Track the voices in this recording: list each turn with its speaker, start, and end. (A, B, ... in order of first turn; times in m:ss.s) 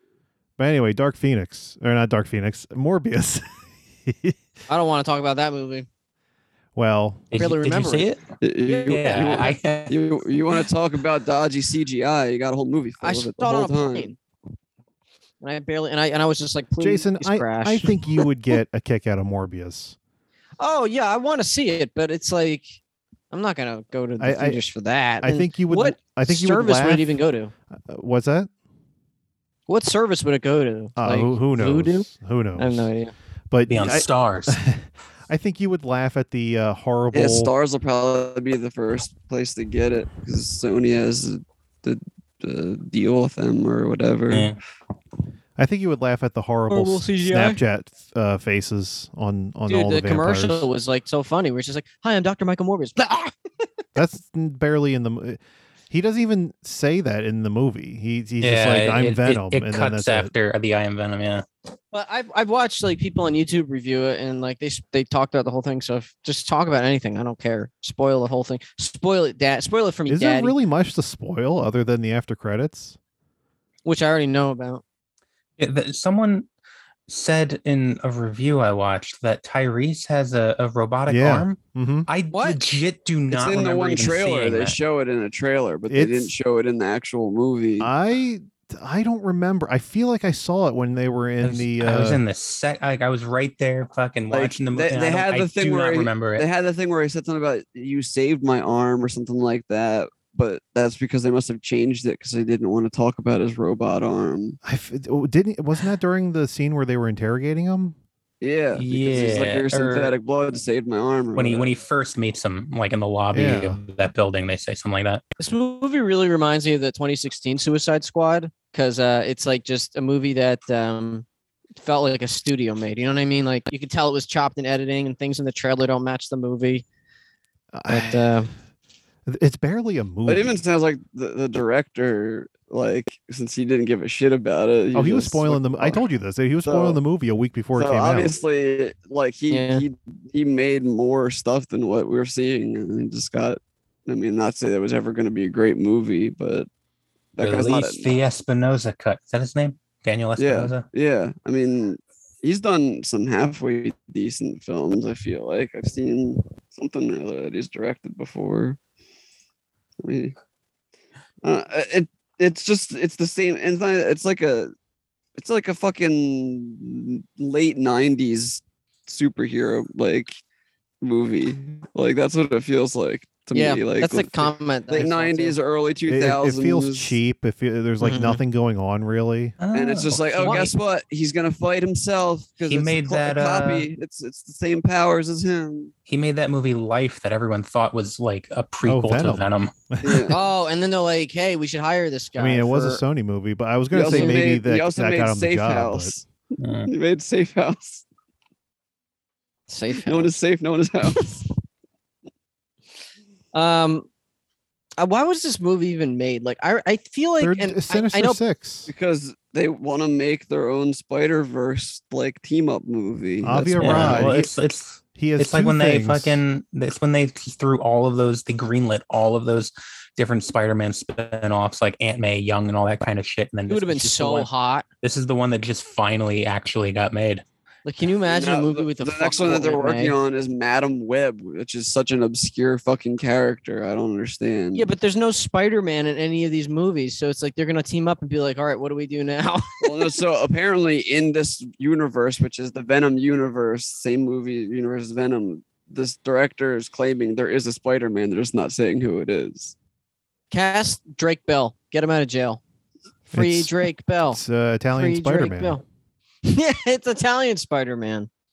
0:00.6-0:04.4 A
0:04.7-0:05.9 B
0:06.7-0:07.3 A
0:07.3-0:08.2 C
0:07.4-0:08.1 B
0:08.4-0:14.2 D
0:08.8-0:10.6 C
0:13.0-0:14.2 B
0:15.4-0:18.0 B
0:16.8-0:20.0 A
0:20.6-0:22.8 B
0:23.3-0:27.5 B
0:24.2-0:24.6 A
0:25.2-0:27.2 A
0:27.9-0:28.5 A
0:29.7-0:33.1 B
0:31.0-0:32.9 A
0:33.5-0:37.5 A
0:33.7-0:34.6 C
0:37.1-0:44.5 D
0:44.3-0:44.6 C
0:45.6-0:50.7 A
0:46.7-0:47.6 B
0:49.7-0:53.3 B
0:53.9-1:00.3 A
0:58.4-1:01.4 C
1:01.9-1:10.6 B
1:10.1-1:13.0 A
1:13.8-1:14.8 B
1:15.6-1:16.5 C
1:17.1-1:24.8 C
1:21.1-1:22.1 A
1:22.3-1:22.6 B
1:23.3-1:27.9 D
1:25.9-1:26.3 A
1:27.8-1:32.2 A
1:31.4-1:36.4 C
1:34.3-1:44.6 D
1:44.6-1:48.0 A
1:48.4-1:51.7 D
1:48.7-1:50.1 C
1:51.4-1:55.2 C
1:53.3-1:53.8 A
1:55.4-2:01.2 B
2:01.8-2:06.8 B
2:07.7-2:08.4 A
2:07.9-2:08.5 B
2:09.3-2:10.6 A
2:10.2-2:16.0 D
2:14.9-2:18.3 A
2:16.6-2:17.0 D
2:17.7-2:26.7 D
2:19.5-2:19.8 B
2:27.3-2:28.1 D
2:27.4-2:30.9 C
2:30.4-2:38.8 D
2:40.0-2:40.4 D
2:41.4-2:44.7 D
2:45.4-2:50.4 D
2:51.0-2:57.1 D
2:53.5-2:55.6 B
2:56.1-2:59.6 A
2:58.0-2:58.4 B
2:59.6-3:00.7 C
2:59.7-3:05.9 D
3:00.4-3:00.7 B
3:02.7-3:03.9 C
3:06.1-3:09.7 C
3:08.8-3:10.4 A
3:10.0-3:10.3 D
3:10.3-3:13.0 B
3:12.4-3:16.2 A
3:13.9-3:16.2 D
3:14.0-3:14.4 B
3:16.6-3:16.9 C
3:16.9-3:18.0 D
3:19.7-3:20.3 B
3:20.0-3:21.4 D
3:23.5-3:24.1 B
3:25.0-3:28.4 B
3:27.4-3:28.9 A
3:28.9-3:34.3 D
3:33.4-3:34.5 A
3:33.8-3:44.5 C
3:35.2-3:36.4 A
3:43.7-3:44.8 B
3:45.0-3:47.4 C
3:47.8-3:50.2 B
3:48.2-3:54.9 D
3:54.7-4:00.1 B
3:59.8-4:09.7 D
4:10.5-4:12.6 B
4:13.3-4:15.8 B
4:13.3-4:15.8 A
4:16.4-4:18.3 B